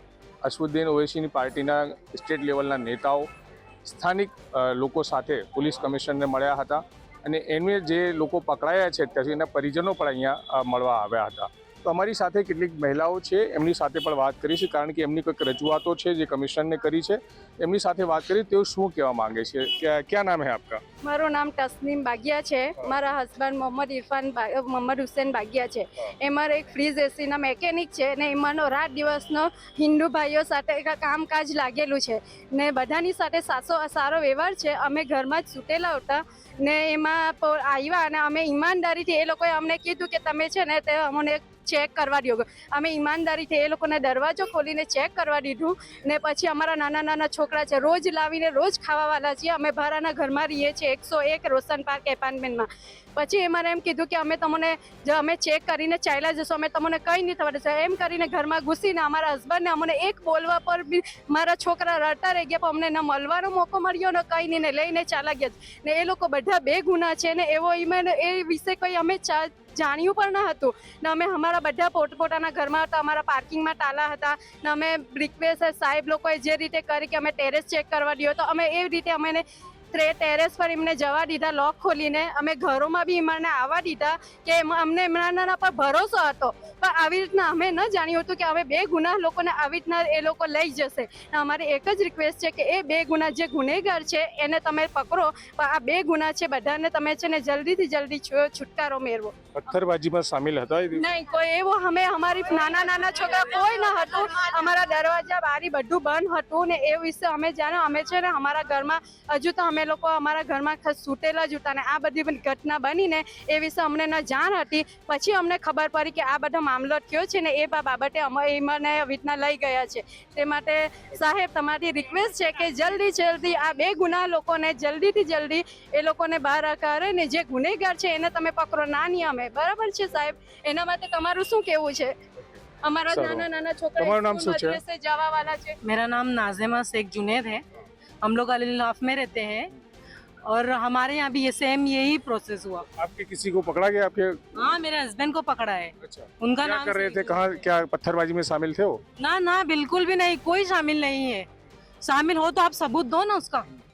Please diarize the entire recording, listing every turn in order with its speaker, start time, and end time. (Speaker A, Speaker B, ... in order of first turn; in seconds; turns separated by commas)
Speaker A: 0.4-3.3, Speaker A: 3.9-20.8, Speaker B: 21.0-99.3, Speaker A: 99.5-101.0, Speaker B: 100.9-132.2, Speaker B: 132.8-135.8, Speaker A: 133.1-133.5, Speaker A: 134.0-134.8, Speaker C: 135.8-137.6, Speaker C: 138.2-139.7, Speaker C: 140.4-142.9, Speaker A: 143.0-144.4, Speaker C: 144.6-147.6, Speaker A: 146.0-149.0, Speaker C: 149.2-151.5, Speaker C: 152.0-153.7